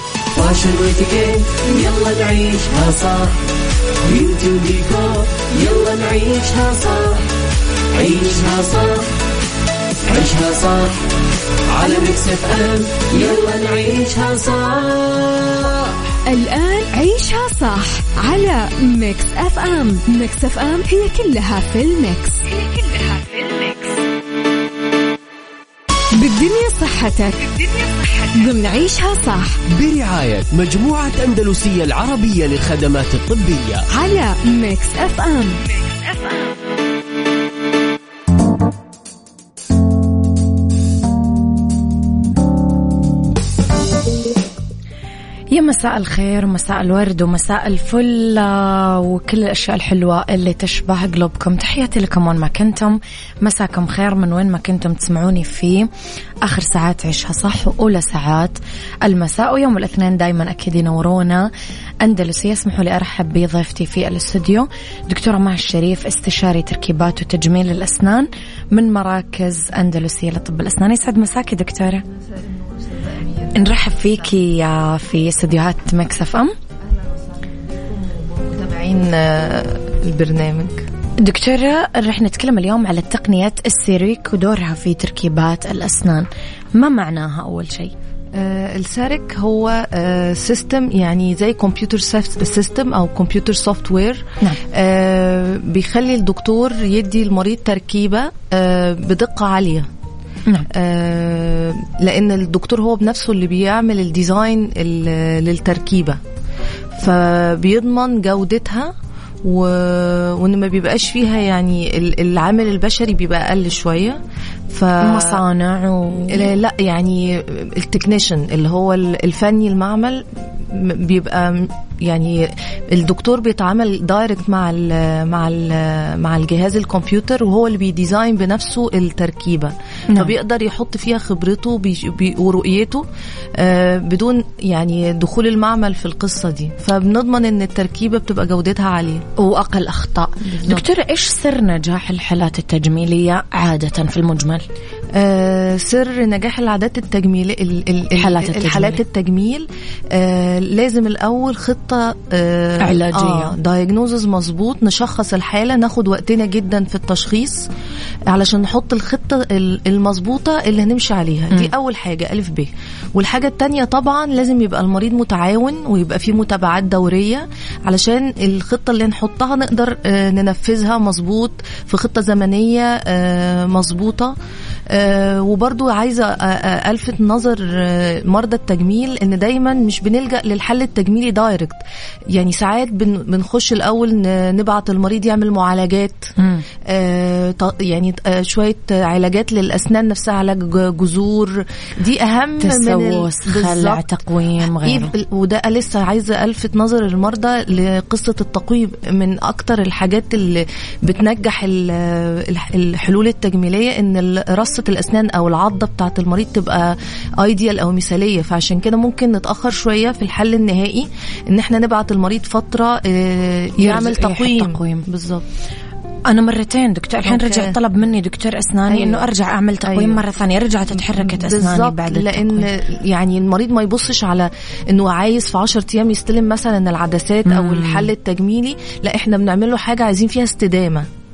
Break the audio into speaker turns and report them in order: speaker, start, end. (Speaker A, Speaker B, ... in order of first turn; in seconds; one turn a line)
Speaker A: 0.3-3.4
Speaker A: 4.0-7.3
Speaker A: 7.9-9.2
Speaker A: 10.0-11.1
Speaker A: 11.7-15.9
Speaker B: 16.2-22.6
Speaker B: 26.1-27.6
Speaker B: 28.3-29.6
Speaker C: 29.7-33.8
Speaker B: 33.9-35.6
Speaker D: 45.5-55.9
Speaker D: 56.4-61.5
Speaker D: 62.0-72.0
Speaker E: 72.3-73.7
Speaker D: 73.5-76.5
Speaker E: 76.8-80.8
Speaker D: 81.2-87.9
Speaker E: 88.3-99.9
Speaker E: 100.7-106.2
Speaker E: 107.0-108.9
Speaker E: 109.4-114.2
Speaker E: 114.7-115.4
Speaker D: 115.0-116.5
Speaker E: 116.3-133.0
Speaker E: 133.6-139.2
Speaker D: 139.4-144.7
Speaker E: 140.5-140.8
Speaker E: 145.1-157.7
Speaker D: 148.2-149.0
Speaker D: 152.8-153.6
Speaker E: 158.3-174.3
Speaker E: 174.9-181.8
Speaker E: 182.3-186.3
Speaker D: 186.4-186.7
Speaker E: 186.8-194.0
Speaker D: 192.6-195.1
Speaker E: 194.6-215.5
Speaker D: 213.8-215.1
Speaker D: 216.3-222.7
Speaker E: 217.2-217.8
Speaker E: 218.9-219.2
Speaker E: 219.8-220.2
Speaker E: 220.9-231.1
Speaker D: 227.5-228.1